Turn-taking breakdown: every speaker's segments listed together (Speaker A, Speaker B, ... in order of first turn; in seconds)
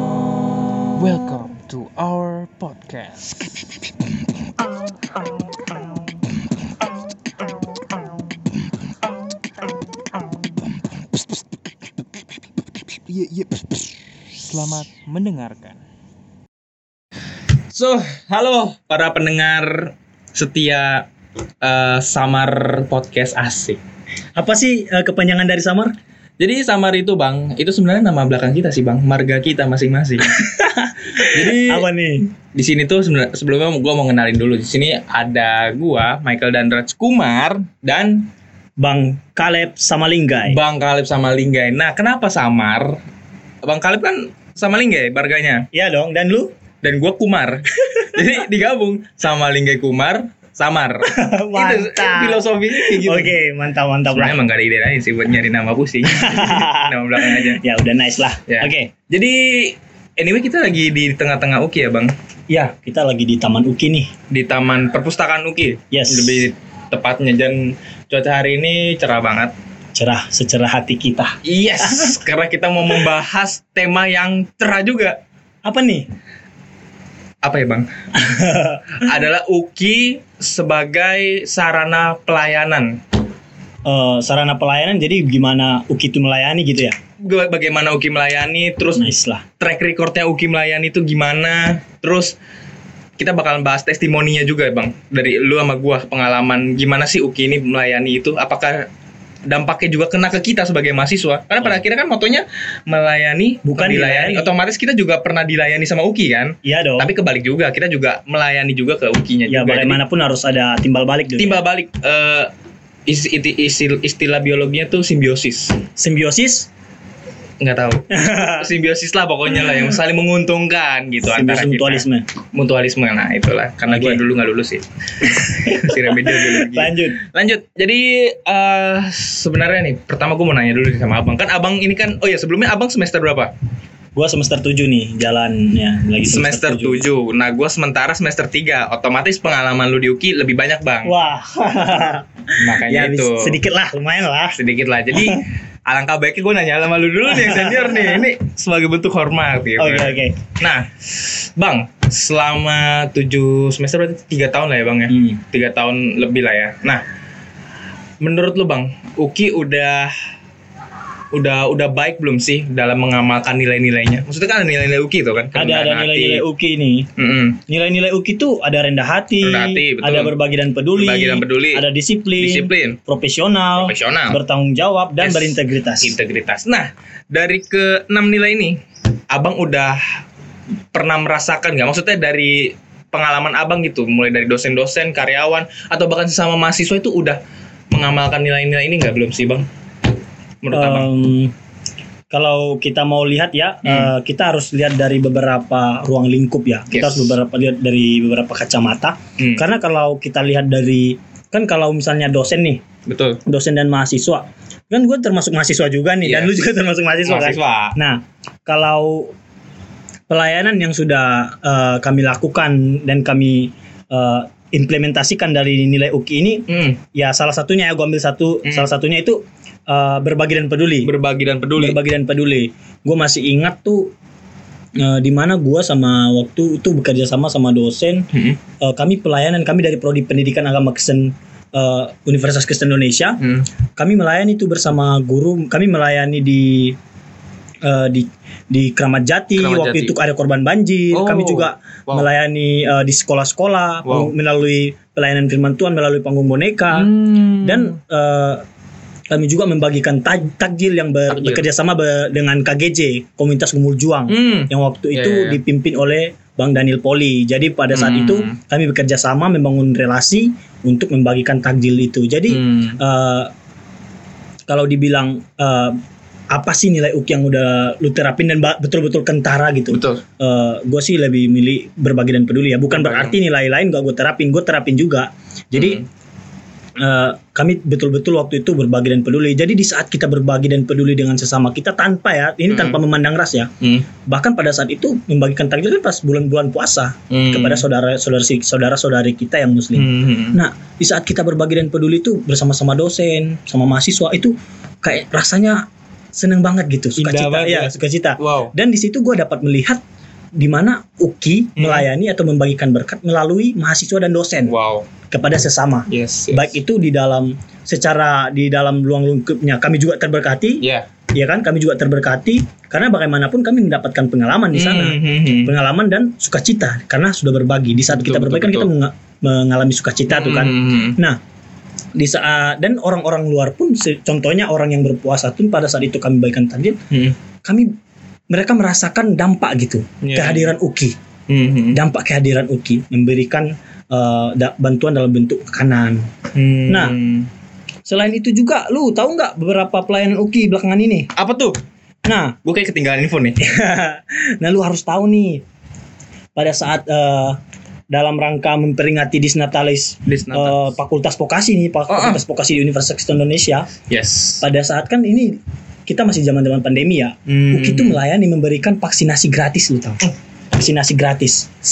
Speaker A: 1.0-3.2, 13.1-13.7, 14.5-15.6
Speaker B: 15.2-15.7, 17.7-21.1, 21.6-23.8, 26.4-30.3, 31.3-31.9, 32.5-38.3, 40.4-43.0, 43.6-45.7, 46.8-53.4, 54.1-57.6, 58.5-62.1, 64.3-69.5, 71.4-75.2, 77.4-77.9, 79.0-83.0, 87.2-92.3, 93.2-98.9, 99.5-110.0, 111.4-112.5, 113.1-115.8, 117.6-133.5, 136.2-141.1, 142.6-143.6, 144.5-157.0, 158.2-160.1, 161.3-166.4, 167.2-167.6, 169.4-170.3, 170.9-171.8, 172.4-173.0, 173.8-174.4, 175.2-178.8, 179.3-180.0, 180.9-187.4, 187.9-189.7, 190.6-191.1, 193.8-194.1, 196.9-197.4, 199.4-199.6, 203.1-203.4, 206.2-206.5, 207.2-208.0, 216.7-217.0, 221.0-222.0, 228.3-228.6, 233.4-233.7, 239.6-240.2, 241.1-242.3, 244.1-244.3, 246.9-247.9, 251.3-251.6, 254.3-255.6, 257.9-258.6, 262.5-263.0, 269.9-270.2, 272.9-273.4, 275.7-276.0, 282.7-283.0, 283.8-284.1, 287.3-287.9, 289.9-290.6, 297.2-298.7, 301.8-302.1, 304.7-305.1, 306.1-306.8, 310.8-311.1, 314.7-315.7, 318.1-318.9, 320.3-321.2, 330.2-330.7, 331.5-332.0, 336.5-337.5, 341.4-341.8, 342.6-343.6, 350.3-350.9, 352.1-352.4, 354.1-354.6, 357.5-358.2
Speaker C: 24.4-25.9, 30.3-32.2, 38.8-40.6, 45.7-46.5, 47.8-48.2, 51.0-54.4, 56.1-58.9, 62.5-64.1, 65.9-66.5, 70.0-72.2, 75.7-76.1, 78.2-79.2, 83.9-87.0, 89.0-89.4, 103.7-104.5, 106.7-107.1, 109.5-111.6, 116.0-116.7, 118.1-118.7, 119.6-119.9, 121.3-122.2, 123.9-124.2, 125.4-127.2, 134.2-137.1, 141.1-144.6, 145.1-145.4, 147.3-148.3, 149.8-150.5, 155.1-155.4, 165.5-167.1, 167.7-176.2, 190.7-191.5, 192.3-202.8, 203.5-209.3, 210.3-221.1, 221.8-224.1, 225.0-228.2, 228.8-233.4, 234.0-236.9, 237.8-247.1, 247.6-248.6, 249.3-263.5, 264.7-266.0, 266.5-276.0, 277.0-283.7, 284.3-300.0, 300.6-304.7, 305.3-321.4, 322.2-327.0, 328.5-331.1, 331.9-336.3, 336.9-337.2, 338.1-341.3, 342.2-342.6, 343.6-345.6, 346.6-347.6, 348.1-353.9, 354.6-361.7